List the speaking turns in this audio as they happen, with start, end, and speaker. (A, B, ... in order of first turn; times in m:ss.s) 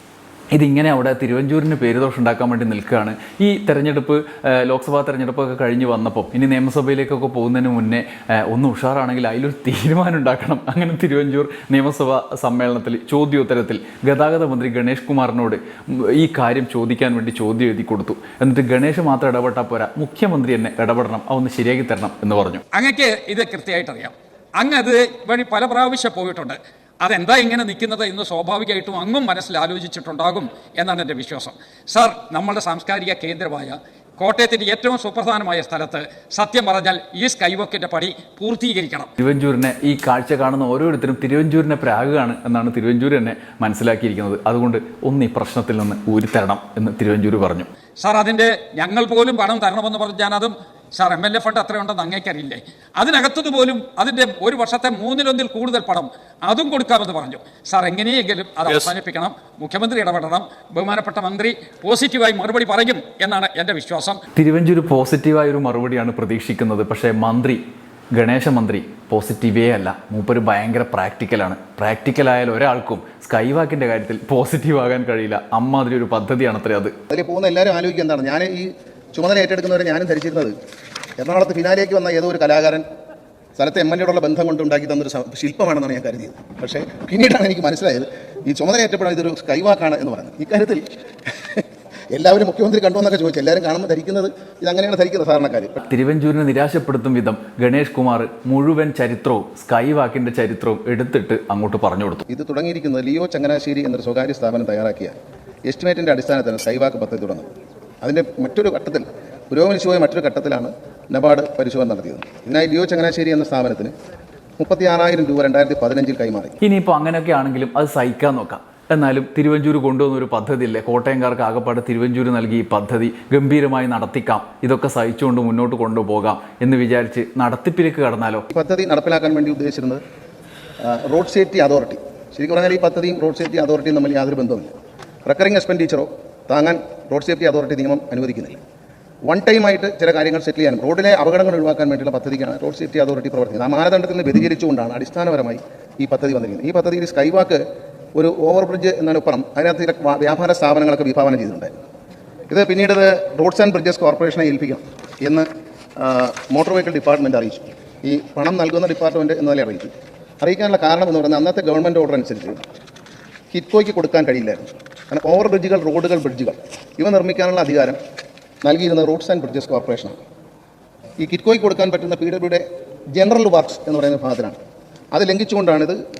0:00.5-0:22.6 A
0:22.7-0:39.1 B
0:39.2-0:47.7 A
0:48.0-1:04.2 B
1:04.4-1:07.6 A
1:08.1-1:16.9 A
1:17.1-1:20.5 C
1:21.2-1:22.8 C
1:23.6-1:35.8 C
1:35.8-1:42.3 A
1:42.3-1:45.2 C
1:45.7-1:47.5 C
1:48.0-1:53.9 C
1:54.6-1:56.6 C
1:56.6-2:08.4 A
2:08.5-2:10.0 C
2:10.8-2:14.7 C
2:15.3-2:18.6 C
2:19.3-2:27.6 C
2:28.2-2:31.8 C
2:32.5-2:42.6 C
2:43.5-2:48.0 C
2:48.6-2:50.2 C
2:51.2-2:54.6 C
2:55.1-2:56.0 C